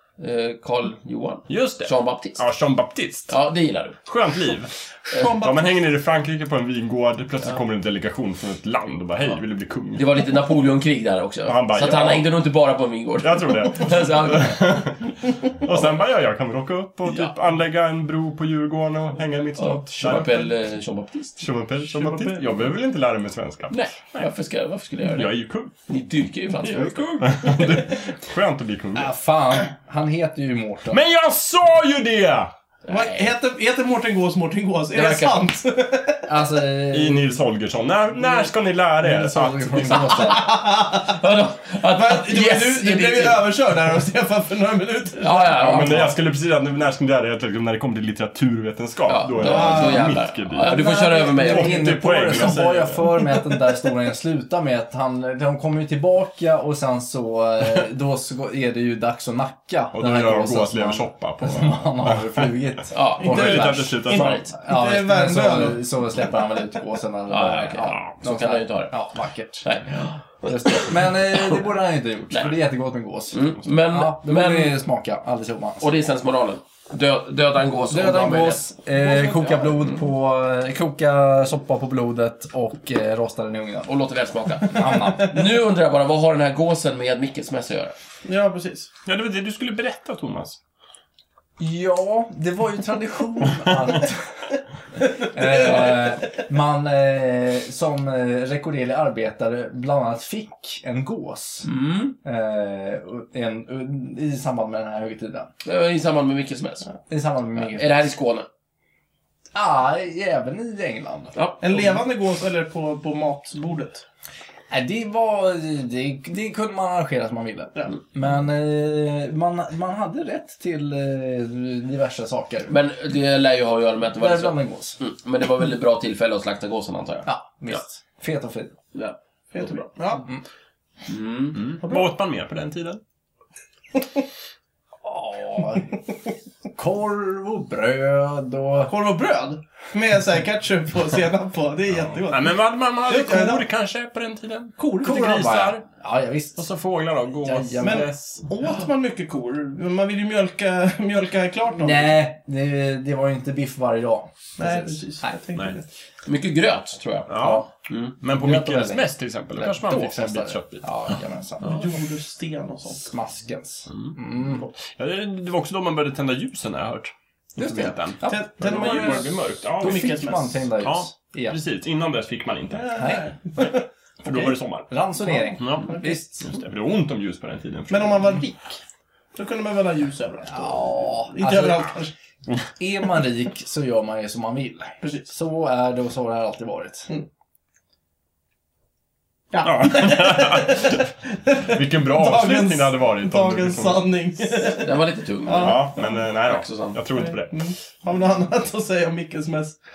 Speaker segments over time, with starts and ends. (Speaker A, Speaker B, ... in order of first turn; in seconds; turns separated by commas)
Speaker A: 0.2-2.4, Speaker B: 1.5-3.3, Speaker A: 3.3-4.0, Speaker B: 4.0-10.3, Speaker C: 5.1-5.8, Speaker A: 9.9-14.7, Speaker B: 11.4-12.3, Speaker B: 13.2-20.4, Speaker A: 19.6-21.4, Speaker B: 21.4-24.2, Speaker C: 21.9-22.7, Speaker A: 23.7-25.3, Speaker B: 25.1-25.7, Speaker A: 25.9-27.7, Speaker C: 26.6-27.7, Speaker B: 27.2-29.1, Speaker D: 28.9-31.0, Speaker B: 30.9-32.5, Speaker A: 32.9-33.3, Speaker C: 32.9-36.3, Speaker A: 34.9-35.5, Speaker D: 36.3-37.4, Speaker B: 36.9-40.3, Speaker D: 39.0-40.5, Speaker A: 39.9-40.4, Speaker C: 40.3-41.2, Speaker A: 41.1-43.5, Speaker C: 41.9-45.5, Speaker A: 45.2-46.1, Speaker B: 45.5-50.8, Speaker D: 45.6-46.1, Speaker A: 49.1-51.9, Speaker C: 49.4-50.2, Speaker D: 50.6-75.9, Speaker B: 51.4-53.3, Speaker B: 59.9-62.5, Speaker A: 62.9-64.4, Speaker B: 63.2-64.4, Speaker C: 63.2-65.9, Speaker A: 67.3-68.9, Speaker A: 69.6-71.6, Speaker A: 73.3-74.8, Speaker A: 75.8-78.6, Speaker D: 77.9-83.9, Speaker C: 79.0-79.8, Speaker A: 83.9-87.9, Speaker D: 84.7-85.4, Speaker C: 88.2-88.9, Speaker B: 89.1-90.6, Speaker D: 91.6-94.4, Speaker D: 95.3-101.7, Speaker C: 95.5-95.9, Speaker A: 101.6-102.1, Speaker D: 102.2-105.5, Speaker A: 105.6-106.9, Speaker D: 107.1-108.0, Speaker A: 107.6-108.5, Speaker D: 109.5-111.9, Speaker A: 111.3-111.6, Speaker C: 111.6-114.0, Speaker D: 114.7-122.7, Speaker A: 122.7-127.8, Speaker D: 124.2-125.0, Speaker D: 127.3-128.8, Speaker A: 128.9-129.8, Speaker C: 129.5-130.3, Speaker A: 131.1-131.7, Speaker B: 131.6-133.0, Speaker C: 131.8-132.1, Speaker D: 135.1-135.9, Speaker D: 136.8-138.9, Speaker C: 138.8-143.6, Speaker B: 141.9-145.8, Speaker C: 144.8-145.3, Speaker D: 145.0-146.6, Speaker B: 146.6-148.4, Speaker D: 147.4-148.1, Speaker C: 147.8-152.2, Speaker D: 151.8-155.3, Speaker C: 154.6-155.9, Speaker A: 156.3-158.1, Speaker B: 157.3-157.7, Speaker D: 157.4-157.7, Speaker B: 158.2-160.9, Speaker D: 158.4-161.8, Speaker C: 161.6-163.1, Speaker D: 163.0-164.7, Speaker B: 163.9-170.2, Speaker D: 167.6-171.6, Speaker C: 168.2-170.7, Speaker B: 170.8-174.9, Speaker C: 172.7-173.8, Speaker D: 173.0-173.3, Speaker D: 174.3-176.5, Speaker C: 175.3-176.2, Speaker B: 175.6-178.4, Speaker C: 177.9-178.8, Speaker C: 179.3-182.1, Speaker D: 180.5-181.9, Speaker D: 182.8-187.1, Speaker C: 189.5-196.1, Speaker B: 189.6-191.1, Speaker B: 191.7-194.1, Speaker A: 194.7-197.0, Speaker B: 195.5-197.7, Speaker C: 197.1-199.8